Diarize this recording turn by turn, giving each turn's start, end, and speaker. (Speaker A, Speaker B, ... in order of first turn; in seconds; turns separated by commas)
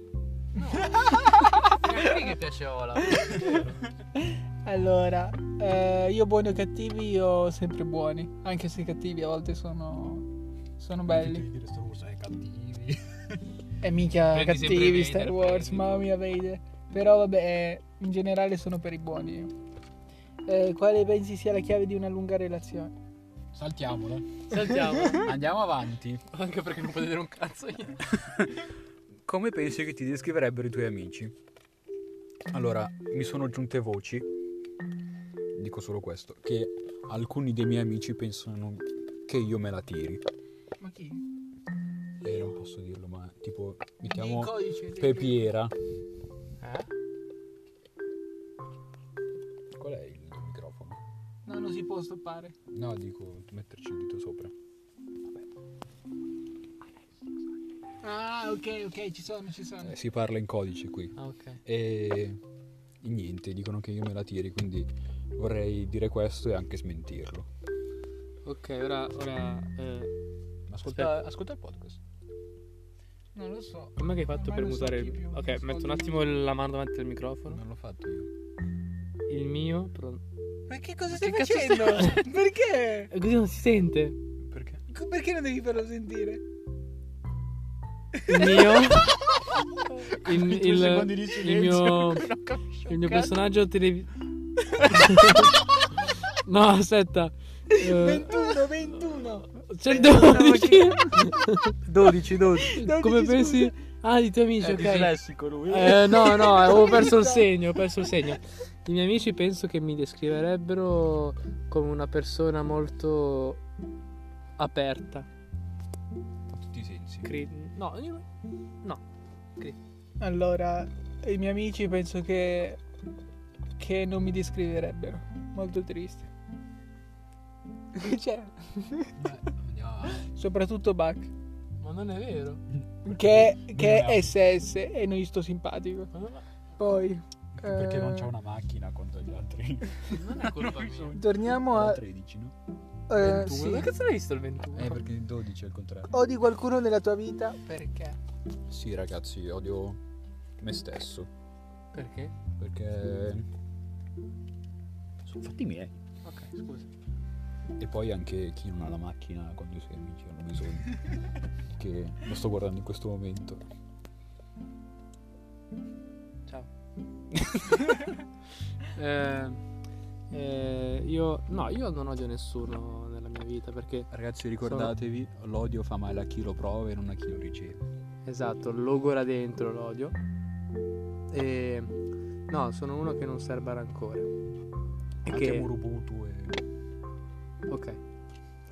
Speaker A: 0.6-3.8, Speaker B: 0.6-1.8, Speaker B: 3.1-3.6, Speaker B: 4.2-10.3, Speaker B: 10.8-11.5, Speaker C: 11.1-13.4, Speaker B: 13.8-19.5, Speaker A: 14.3-16.1, Speaker B: 20.4-22.9, Speaker C: 23.5-24.5, Speaker A: 24.5-25.3, Speaker B: 24.7-25.2, Speaker C: 25.1-26.2, Speaker A: 26.3-28.1, Speaker C: 28.2-28.6, Speaker C: 29.2-31.3, Speaker C: 32.5-34.3, Speaker C: 35.5-40.2, Speaker B: 40.8-41.2, Speaker C: 42.2-45.7, Speaker B: 44.0-45.5, Speaker A: 46.6-46.9, Speaker C: 49.7-51.0, Speaker B: 51.5-52.5, Speaker C: 52.7-54.5, Speaker B: 58.0-60.0, Speaker C: 59.8-62.4, Speaker A: 61.2-61.6, Speaker C: 63.0-67.5, Speaker A: 68.4-70.1, Speaker C: 70.7-72.0, Speaker A: 70.8-71.2, Speaker B: 73.3-76.3, Speaker A: 74.0-77.6, Speaker C: 77.5-78.3, Speaker A: 79.3-80.2, Speaker B: 80.7-83.1, Speaker A: 81.1-82.3, Speaker A: 83.1-84.2, Speaker C: 84.4-84.8, Speaker B: 84.9-86.4, Speaker A: 88.3-89.2, Speaker B: 88.3-88.9, Speaker C: 90.0-93.4, Speaker A: 90.0-92.3, Speaker A: 92.9-94.2, Speaker C: 94.8-95.5, Speaker A: 94.8-95.6, Speaker A: 96.2-98.6, Speaker B: 97.7-101.3, Speaker A: 99.5-101.8, Speaker C: 99.9-100.8, Speaker C: 101.8-102.8, Speaker B: 102.6-103.7, Speaker A: 102.7-113.6, Speaker C: 104.6-106.5, Speaker B: 106.3-107.5, Speaker A: 114.6-115.3, Speaker C: 116.5-117.3, Speaker A: 117.2-118.2, Speaker B: 120.2-122.8, Speaker B: 123.8-126.3, Speaker B: 127.9-129.2, Speaker C: 129.2-130.3, Speaker B: 130.2-131.3, Speaker A: 131.8-132.6, Speaker B: 133.0-136.1, Speaker C: 133.0-134.3, Speaker A: 136.1-136.4, Speaker B: 136.8-138.3, Speaker C: 137.6-142.5, Speaker A: 140.1-141.2, Speaker B: 141.1-142.0, Speaker B: 143.1-143.9, Speaker A: 143.1-145.0, Speaker C: 144.7-146.1, Speaker B: 146.1-148.2, Speaker C: 148.7-150.0, Speaker C: 150.6-151.3, Speaker A: 151.9-152.3, Speaker C: 152.6-153.4, Speaker C: 155.2-156.0, Speaker A: 156.2-156.9, Speaker C: 157.8-161.0, Speaker C: 161.7-163.6, Speaker C: 167.3-168.1, Speaker A: 168.9-169.6, Speaker A: 170.3-174.1, Speaker C: 174.1-177.8, Speaker A: 174.6-174.9, Speaker A: 178.2-180.2, Speaker A: 181.3-184.3, Speaker A: 185.2-185.7, Speaker C: 185.2-186.6, Speaker A: 187.7-188.0